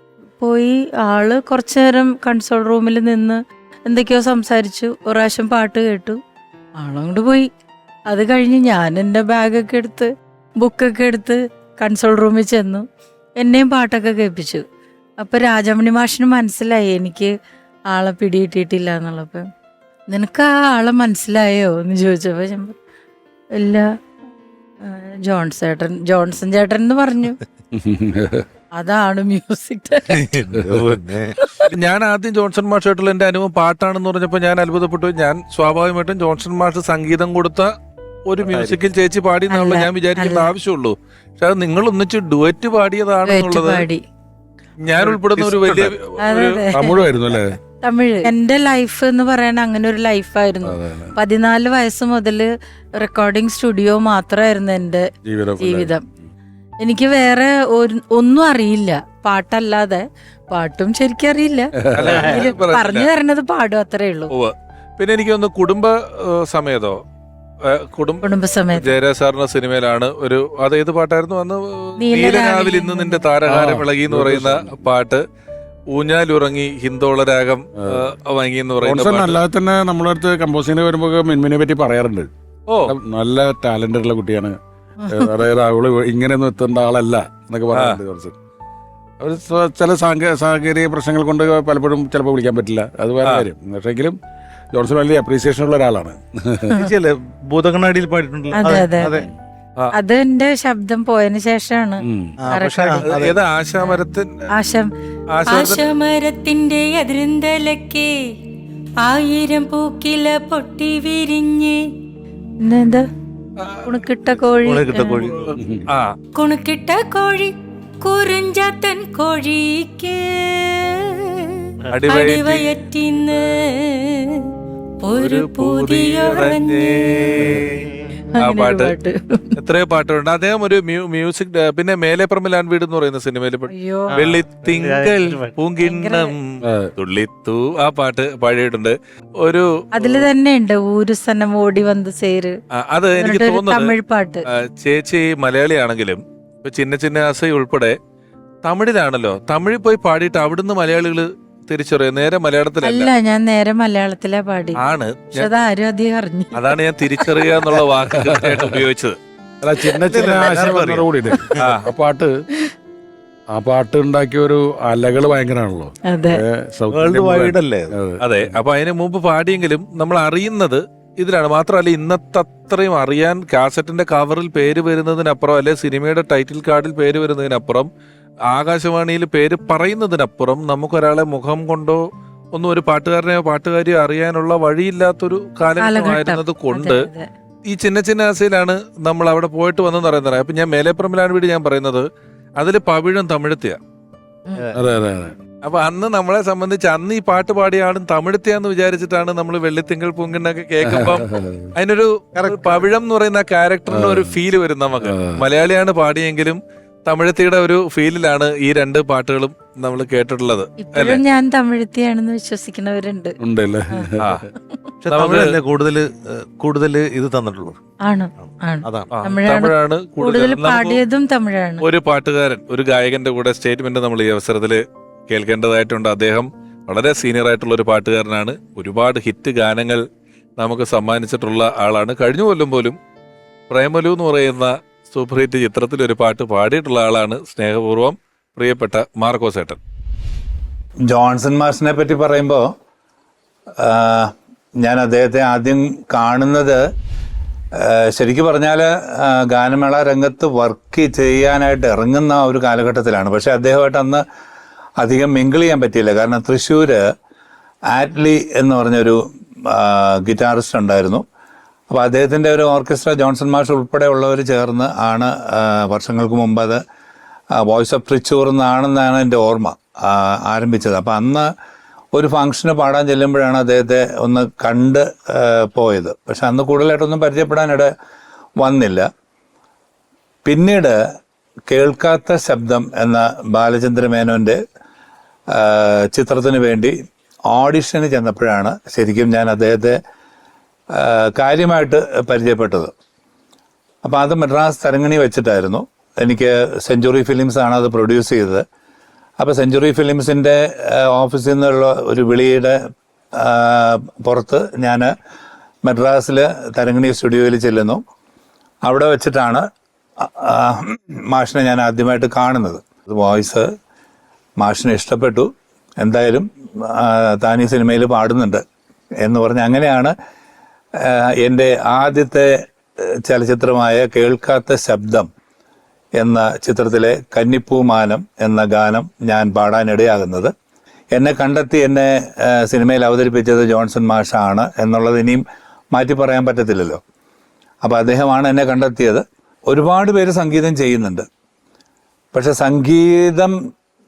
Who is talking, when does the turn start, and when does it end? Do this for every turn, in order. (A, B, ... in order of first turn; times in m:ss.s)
0:00.4-0:06.2 A
0:06.8-0:07.5 A
0:08.0-0:12.8 A
0:13.4-0:14.6 A
0:15.2-0:17.3 A
0:17.9-0:19.5 A
0:20.1-0:22.7 A
0:23.5-0:23.9 A
0:24.8-0:27.4 A
0:27.7-0:28.4 B
0:28.7-0:30.2 A
0:30.1-0:31.4 C
0:31.4-0:31.7 A
0:31.7-0:37.7 D
0:38.3-0:43.8 D
0:38.5-0:38.8 C
0:39.5-0:40.5 A
0:43.2-0:44.0 A
0:44.8-0:46.6 D
0:45.0-0:45.9 C
0:46.2-0:47.1 A
0:46.7-0:47.6 B
0:47.7-0:52.4 A
0:50.6-0:51.1 B
0:53.0-0:55.0 A
0:55.3-0:55.9 B
0:55.6-0:56.0 A
0:56.8-1:04.3 A
1:01.8-1:02.2 B
1:01.9-1:03.1 D
1:04.3-1:07.0 D
1:07.6-1:15.2 D
1:08.2-1:08.9 A
1:12.0-1:13.3 A
1:13.4-1:14.8 B
1:15.9-1:19.4 D
1:18.8-1:22.3 B
1:22.7-1:23.0 D
1:22.9-1:28.4 B
1:25.0-1:25.3 A
1:27.7-1:28.0 D
1:29.2-1:34.2 B
1:34.7-1:36.8 B
1:36.8-1:39.3 C
1:38.5-1:39.2 A
1:39.9-1:42.9 A
1:42.0-1:42.4 B
1:42.4-1:43.3 C
1:42.9-1:44.5 D
1:44.5-1:44.9 A
1:45.3-1:45.9 D
1:45.5-1:48.2 A
1:49.0-1:51.8 A
1:52.6-1:53.0 A
1:53.6-1:54.0 D
1:53.8-1:55.3 A
1:54.6-1:55.5 C
1:55.2-1:56.2 D
1:55.6-1:55.8 B
1:56.3-2:07.3 A
2:01.9-2:02.7 D
2:05.1-2:08.9 D
2:08.3-2:09.6 A
2:09.6-2:20.2 D
2:13.7-2:14.2 A
2:14.2-2:15.5 C
2:15.8-2:16.3 A
2:16.6-2:16.9 B
2:19.9-2:22.6 A
2:22.7-2:23.9 D
2:23.1-2:24.4 A
2:24.4-2:28.0 D
2:28.6-2:33.1 D
2:32.8-2:34.8 A
2:34.8-2:35.5 D
2:35.3-2:37.4 A
2:36.5-2:39.2 D
2:38.2-2:38.8 B
2:39.6-2:42.3 B
2:40.0-2:41.7 C
2:41.5-2:41.9 D
2:43.5-2:48.4 B
2:46.1-2:46.4 A
2:46.9-2:47.9 C
2:48.2-2:57.9 D
2:58.5-3:02.0 D
3:02.5-3:07.1 D
3:05.8-3:07.3 A
3:07.6-3:12.1 D
3:12.6-3:13.8 D
3:14.5-3:14.8 A
3:14.7-3:15.4 B
3:15.6-3:31.2 D
3:20.8-3:21.7 B
3:22.4-3:22.7 C
3:23.9-3:24.4 B
3:25.0-3:25.4 B
3:30.8-3:33.4 A
3:33.4-3:34.3 B
3:33.9-3:34.9 A
3:34.2-3:34.5 D
3:35.0-3:37.8 C
3:35.1-3:35.6 D
3:38.0-3:41.8 A
3:38.4-3:39.1 C
3:39.1-3:41.0 D
3:41.8-3:50.0 D
3:50.6-3:53.0 D
3:53.7-3:59.8 D
4:01.1-4:02.7 E
4:03.8-4:06.8 E
4:07.8-4:14.2 E
4:15.0-4:17.0 E
4:17.9-4:21.2 E
4:21.9-4:26.8 E
4:27.6-4:31.5 E
4:32.1-4:37.9 E
4:38.6-4:39.1 E
4:40.4-4:41.0 E
4:41.7-4:44.6 E
4:45.5-4:46.9 E
4:47.5-4:50.0 E
4:50.9-4:52.9 E
4:54.0-4:58.6 E
4:59.4-5:02.8 E
5:03.4-5:05.1 E
5:05.8-5:08.0 E
5:08.8-5:09.6 E
5:10.2-5:13.7 E
5:14.6-5:15.5 E
5:16.0-5:18.6 E
5:19.2-5:20.1 E
5:21.0-5:22.5 E
5:23.2-5:25.3 E
5:26.2-5:30.5 E
5:31.1-5:37.0 E
5:37.8-5:41.2 E
5:42.3-5:43.5 E